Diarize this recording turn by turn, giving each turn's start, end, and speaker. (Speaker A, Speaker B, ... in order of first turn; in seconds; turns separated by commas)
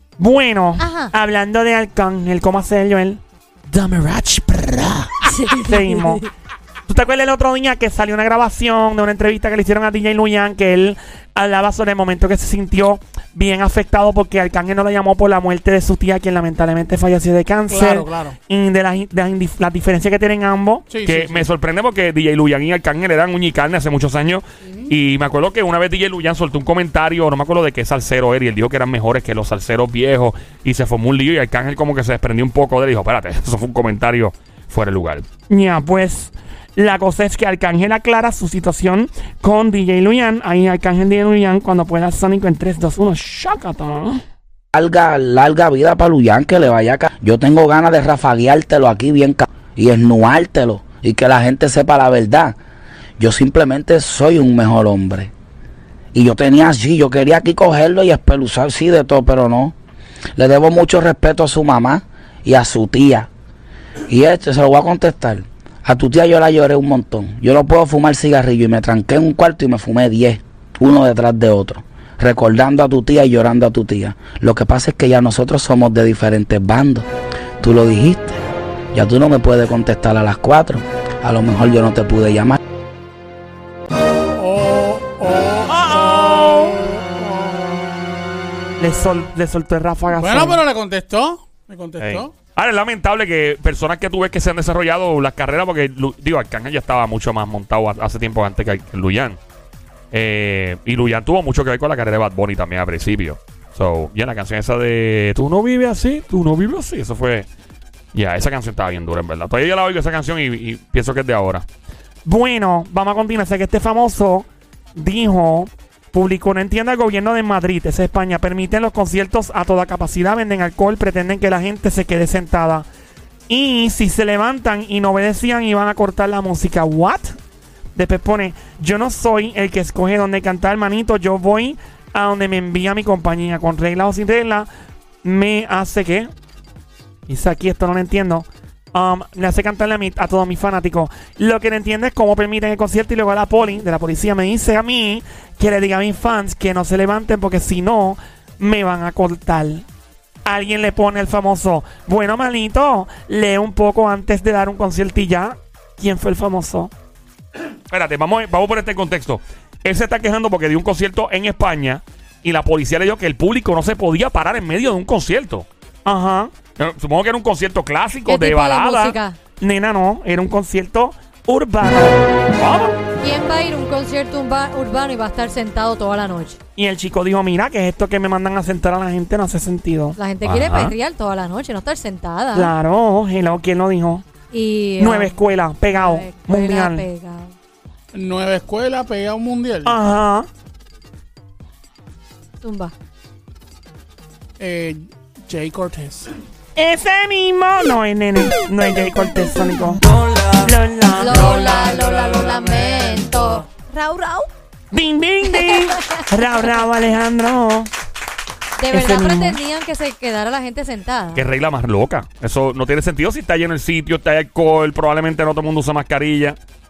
Speaker A: 0.2-5.1, Speaker B: 0.8-1.1, Speaker B: 5.2-6.3, Speaker A: 5.6-6.2, Speaker A: 6.9-20.9, Speaker C: 17.7-18.4, Speaker C: 20.9-21.5, Speaker D: 21.0-35.3, Speaker C: 24.6-24.9, Speaker A: 35.5-44.2, Speaker E: 44.7-52.6, Speaker E: 53.2-55.3, Speaker E: 56.1-59.7, Speaker E: 60.4-63.3, Speaker E: 64.1-77.1, Speaker E: 77.6-78.4, Speaker E: 78.9-82.6, Speaker C: 84.4-88.0, Speaker A: 85.7-86.8, Speaker A: 88.8-90.6, Speaker C: 90.1-92.3, Speaker D: 92.0-99.4, Speaker D: 100.1-107.5, Speaker D: 108.1-111.7, Speaker A: 112.2-122.9, Speaker A: 123.5-127.3, Speaker A: 128.0-134.7, Speaker A: 135.2-136.3, Speaker A: 137.3-149.8, Speaker A: 150.4-156.9, Speaker D: 157.9-165.7, Speaker A: 166.0-166.5, Speaker D: 166.8-169.1, Speaker B: 168.2-169.4, Speaker A: 169.6-172.2, Speaker D: 172.6-172.9, Speaker B: 173.2-176.6, Speaker A: 176.8-180.2, Speaker B: 180.2-182.7, Speaker D: 180.4-180.9, Speaker A: 182.5-184.2, Speaker B: 184.5-185.4, Speaker A: 185.0-187.1, Speaker B: 185.9-187.5, Speaker C: 188.1-189.9, Speaker A: 189.8-190.5, Speaker B: 192.6-192.9, Speaker C: 194.6-196.3, Speaker A: 196.8-201.5, Speaker B: 201.2-204.5, Speaker C: 201.2-203.6, Speaker A: 204.9-207.9, Speaker B: 205.5-206.3, Speaker B: 208.8-211.4, Speaker A: 208.9-209.6, Speaker D: 211.3-216.6